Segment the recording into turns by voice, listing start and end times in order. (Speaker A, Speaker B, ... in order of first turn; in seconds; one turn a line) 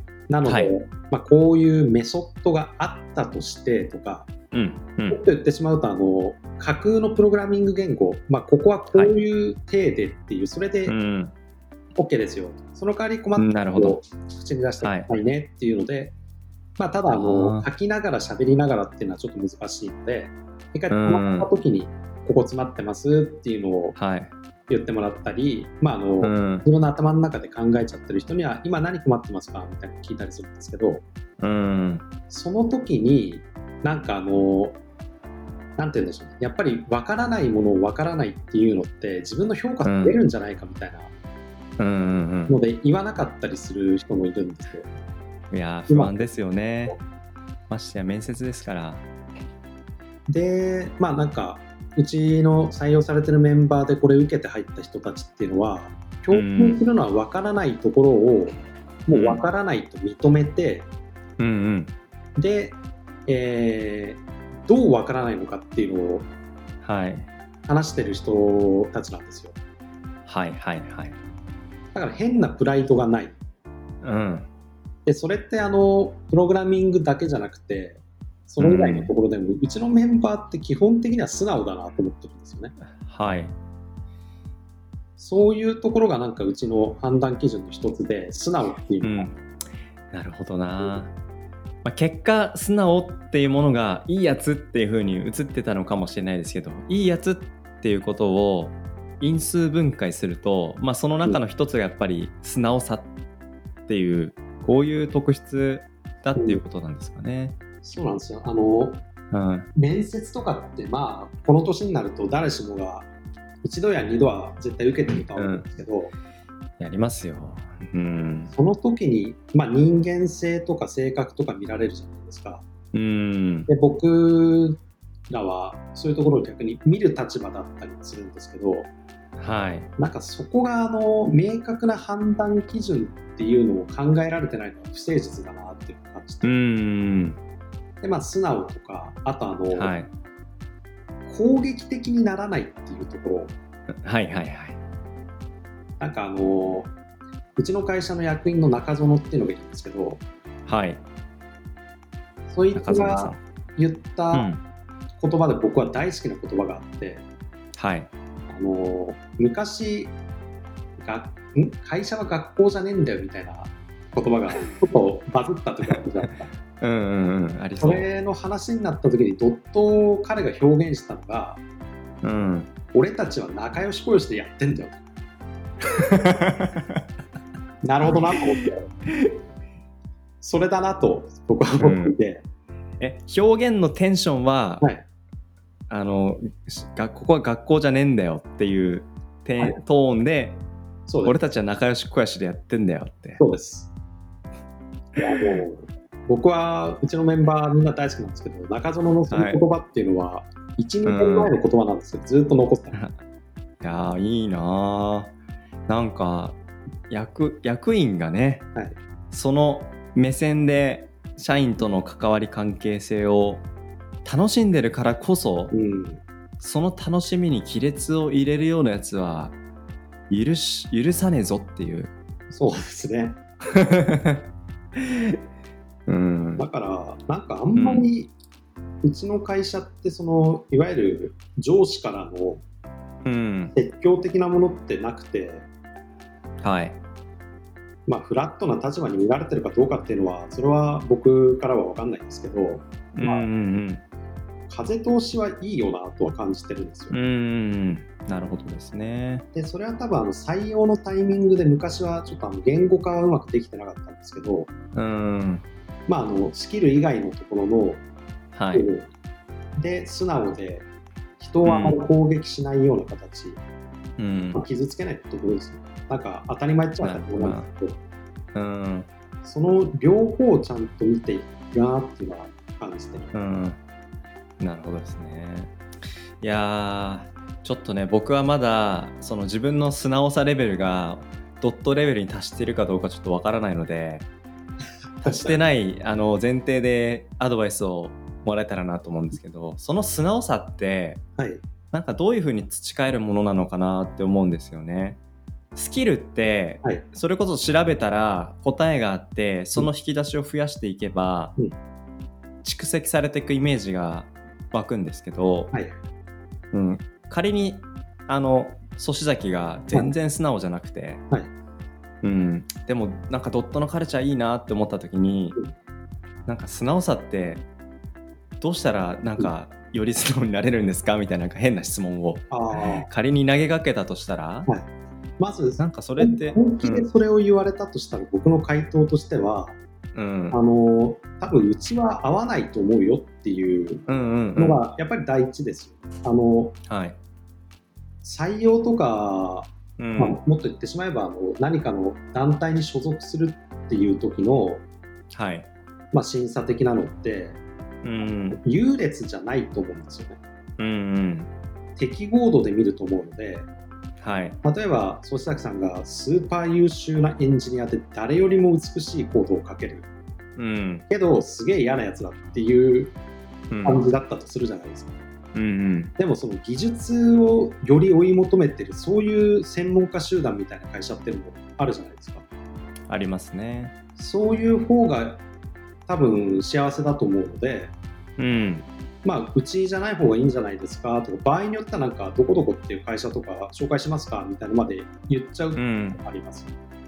Speaker A: 0.3-4.3
Speaker B: 0.4-0.7
Speaker B: 4.5-5.2
Speaker A: 5.1-10.9
Speaker B: 10.9-11.3
Speaker A: 11.9-16.1
Speaker B: 13.4-14.0
Speaker B: 14.8-15.1
Speaker A: 16.8-24.0
Speaker B: 17.1-17.7
Speaker B: 20.9-21.5
Speaker B: 24.0-24.3
Speaker A: 24.7-31.0
Speaker B: 26.2-26.7
Speaker B: 31.4-32.0
Speaker A: 32.3-34.8
Speaker A: 35.8-41.1
Speaker B: 39.8-40.2
Speaker B: 41.8-42.6
Speaker A: 42.5-44.9
Speaker B: 45.5-47.0
Speaker A: 45.9-46.3
Speaker B: 47.7-49.0
Speaker A: 50.3-60.9
Speaker B: 56.3-56.8
Speaker B: 59.1-59.4
Speaker B: 61.4-61.9
Speaker A: 62.4-66.3
Speaker B: 66.8-67.3
Speaker A: 67.7-69.6
Speaker B: 70.3-71.2
Speaker A: 71.9-73.4
Speaker B: 74.0-74.5
Speaker A: 75.1-82.7
Speaker B: 78.6-79.1
Speaker B: 83.0-83.5
Speaker A: 85.2-89.3
Speaker B: 89.0-89.4
Speaker B: 90.1-91.1
Speaker B: 91.8-103.1
Speaker B: 103.9-107.5
Speaker A: 107.8-109.0
Speaker B: 109.3-109.7
Speaker A: 109.8-113.1
Speaker A: 113.6-116.1
Speaker B: 115.3-115.7
Speaker B: 116.8-118.5
Speaker A: 118.5-122.7
Speaker B: 122.9-123.7
Speaker A: 123.7-128.9
Speaker B: 129.4-129.9
Speaker A: 130.0-136.5
Speaker B: 136.4-137.4
Speaker A: 138.0-139.9
Speaker B: 139.7-140.1
Speaker A: 141.3-143.5
Speaker B: 144.0-144.8
Speaker A: 146.0-146.9
Speaker A: 147.6-150.2
Speaker B: 150.7-151.0
Speaker A: 152.5-154.5
Speaker B: 152.7-153.4
Speaker B: 154.3-154.6
Speaker A: 155.2-157.2
Speaker B: 157.8-158.1
Speaker A: 158.5-160.2
Speaker A: 161.0-166.5
Speaker B: 166.8-168.1
Speaker A: 167.8-171.6
Speaker B: 172.2-172.7
Speaker A: 172.9-175.0
Speaker B: 175.9-177.0
Speaker A: 177.8-178.9
Speaker A: 180.4-182.4
Speaker B: 181.8-182.1
Speaker B: 183.0-184.8
Speaker B: 185.9-190.6
Speaker A: 191.1-191.3
Speaker B: 191.2-193.4
Speaker A: 193.4-193.9
Speaker A: 195.2-203.0
Speaker B: 199.3-199.6
Speaker B: 201.1-201.5
Speaker B: 203.8-205.3
Speaker B: 205.9-206.6
Speaker B: 207.1-208.7
Speaker B: 209.3-213.7
Speaker B: 214.2-215.7
Speaker A: 215.7-216.2
Speaker B: 216.6-219.6
Speaker B: 220.3-222.1
Speaker A: 222.5-223.4
Speaker B: 223.7-224.4
Speaker B: 225.0-225.4
Speaker B: 226.1-226.6
Speaker A: 226.6-228.3
Speaker B: 227.8-228.1
Speaker A: 229.0-232.6
Speaker B: 233.2-233.7
Speaker A: 233.7-235.7
Speaker B: 236.6-237.0
Speaker A: 238.1-243.4
Speaker B: 243.2-244.0
Speaker A: 244.7-247.2
Speaker B: 247.1-249.4
Speaker A: 249.5-254.7
Speaker B: 254.9-255.7
Speaker A: 256.1-258.0
Speaker B: 258.5-258.9
Speaker A: 258.7-259.1
Speaker A: 259.8-260.9
Speaker A: 261.4-263.6
Speaker B: 261.6-262.0
Speaker B: 264.2-264.6
Speaker A: 264.5-268.0
Speaker B: 267.0-267.7
Speaker B: 268.6-269.1
Speaker A: 269.4-273.3
Speaker B: 273.3-273.8
Speaker B: 274.6-275.7
Speaker B: 276.4-284.3
Speaker B: 285.2-291.2
Speaker A: 285.2-285.6
Speaker B: 291.9-295.2
Speaker B: 295.8-301.5
Speaker B: 302.6-305.7
Speaker B: 306.7-311.2
Speaker B: 312.2-315.6
Speaker B: 316.5-317.7
Speaker B: 318.6-324.7
Speaker A: 322.5-323.1
Speaker A: 325.4-329.8
Speaker B: 325.8-327.1
Speaker B: 330.1-330.6
Speaker A: 330.5-334.0
Speaker B: 334.1-334.8
Speaker A: 334.6-336.8
Speaker B: 336.9-337.2
Speaker A: 338.2-344.8
Speaker B: 340.0-340.4
Speaker B: 345.3-345.7
Speaker A: 346.1-347.6
Speaker B: 348.0-348.6
Speaker A: 348.5-350.4
Speaker B: 350.8-351.5
Speaker A: 352.0-353.7
Speaker B: 354.2-354.6
Speaker A: 354.6-360.1
Speaker B: 360.6-361.1
Speaker A: 361.1-363.2
Speaker B: 363.7-364.0
Speaker A: 363.8-365.2
Speaker B: 365.6-366.1
Speaker A: 366.2-372.5
Speaker B: 373.1-373.9
Speaker A: 374.2-375.4
Speaker A: 376.1-377.9
Speaker B: 378.4-378.9
Speaker A: 379.2-386.8
Speaker B: 385.8-386.2